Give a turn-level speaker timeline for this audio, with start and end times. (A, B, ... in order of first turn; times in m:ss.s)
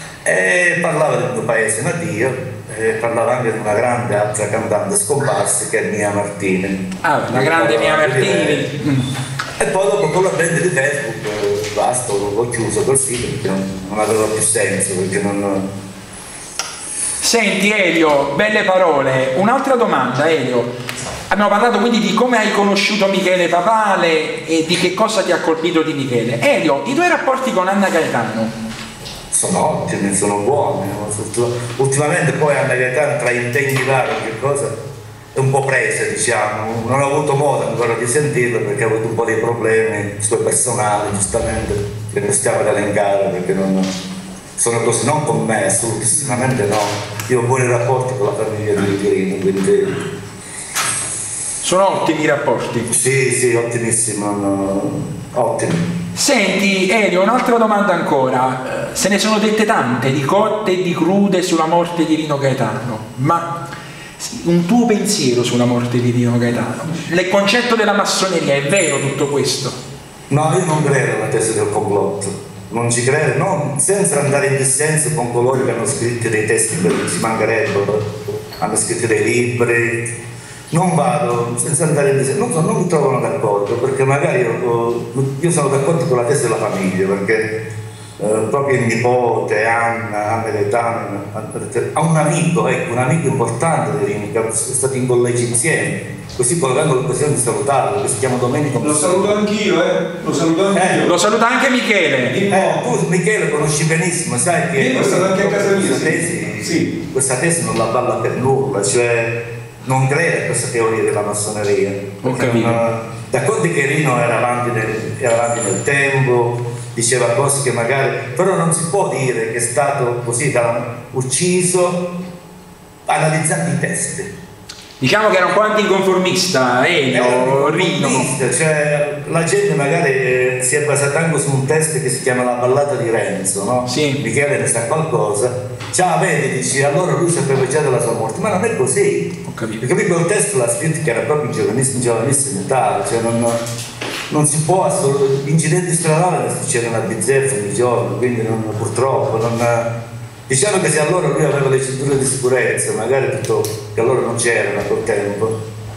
0:00.2-0:08.7 A
0:07.0-0:09.1 B
0:09.6-0:15.7 A
0:17.2-0:20.7 B
0:21.3-0:28.5 B
0:29.3-0:34.7 A
0:35.3-0:43.9 A
0:44.6-0:50.0 A
0:46.1-0:46.5 B
0:51.6-0:52.9 B
0:52.9-0:55.8 A
0:56.1-1:03.6 B
1:04.2-1:09.8 B
1:10.3-1:20.1 A
1:20.7-1:27.6 A
1:28.2-1:39.4 A
1:38.8-1:41.1 C
1:40.7-1:41.0 A
1:41.0-1:42.4 B
1:42.3-1:42.8 C
1:42.5-2:02.1 A
1:44.7-1:46.9 C
1:52.2-1:52.8 B
2:03.1-2:04.3 A
2:05.0-2:08.3 B
2:07.1-2:23.6 A
2:13.9-2:14.2 B
2:19.5-2:19.8 B
2:24.3-2:29.9 A
2:30.5-2:35.6 A